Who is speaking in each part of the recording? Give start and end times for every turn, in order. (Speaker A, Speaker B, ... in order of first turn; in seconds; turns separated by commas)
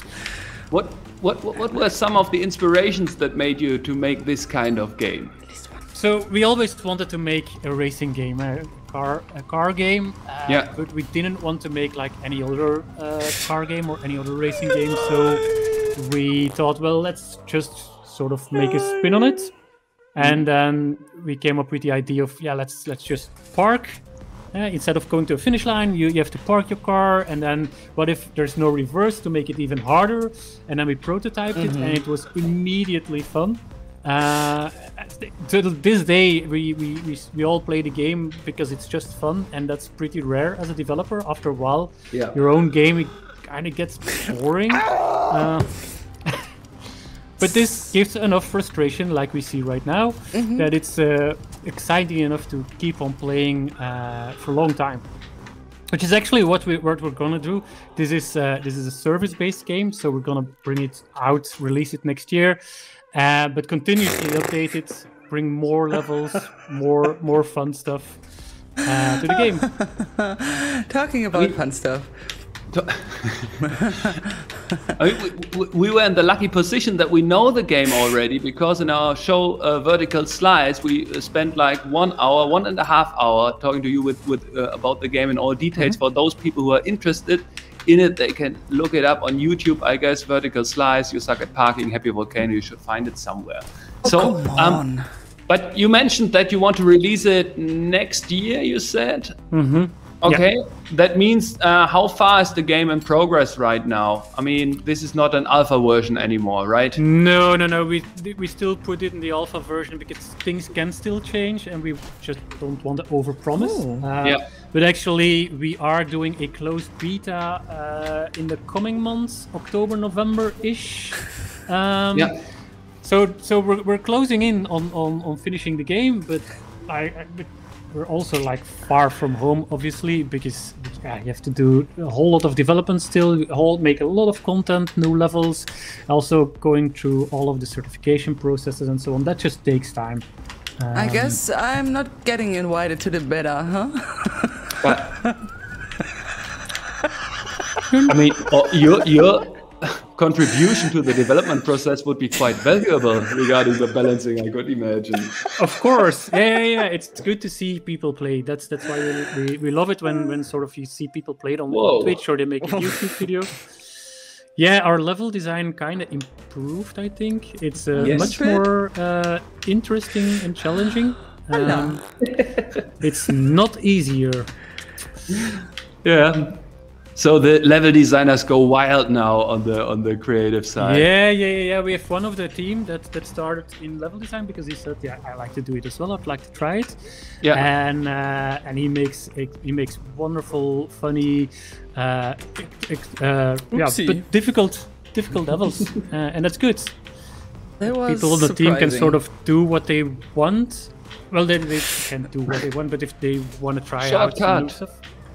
Speaker A: 0.7-5.4, Speaker B: 6.0-19.6, Speaker C: 15.4-15.9, Speaker C: 18.6-19.4, Speaker B: 20.1-24.0, Speaker B: 24.5-46.4, Speaker C: 31.6-32.0, Speaker A: 42.1-42.4, Speaker C: 44.9-45.3, Speaker B: 47.4-55.0, Speaker C: 50.3-50.7, Speaker B: 55.9-62.6, Speaker B: 63.1-68.2, Speaker B: 68.8-69.8, Speaker C: 69.3-72.1, Speaker A: 72.7-74.1, Speaker C: 73.6-75.0, Speaker A: 75.0-94.8, Speaker C: 94.0-95.1, Speaker A: 95.5-99.3, Speaker B: 99.5-100.4, Speaker A: 100.2-107.0, Speaker B: 107.0-122.4, Speaker C: 113.6-114.1, Speaker B: 123.0-140.2, Speaker B: 140.8-141.4, Speaker C: 140.9-145.4, Speaker A: 144.8-145.2, Speaker B: 147.9-148.2, Speaker A: 148.1-155.4, Speaker B: 155.6-163.7, Speaker A: 161.7-162.2, Speaker C: 162.7-163.0, Speaker B: 164.6-172.1, Speaker C: 168.0-168.7, Speaker A: 168.0-168.4, Speaker C: 171.5-172.0, Speaker A: 172.2-172.8, Speaker B: 173.0-174.5, Speaker A: 175.3-176.6, Speaker A: 177.2-181.1, Speaker B: 180.8-197.0, Speaker A: 187.4-187.7, Speaker C: 193.7-194.2, Speaker C: 197.8-199.2, Speaker B: 197.8-205.0, Speaker A: 204.0-204.8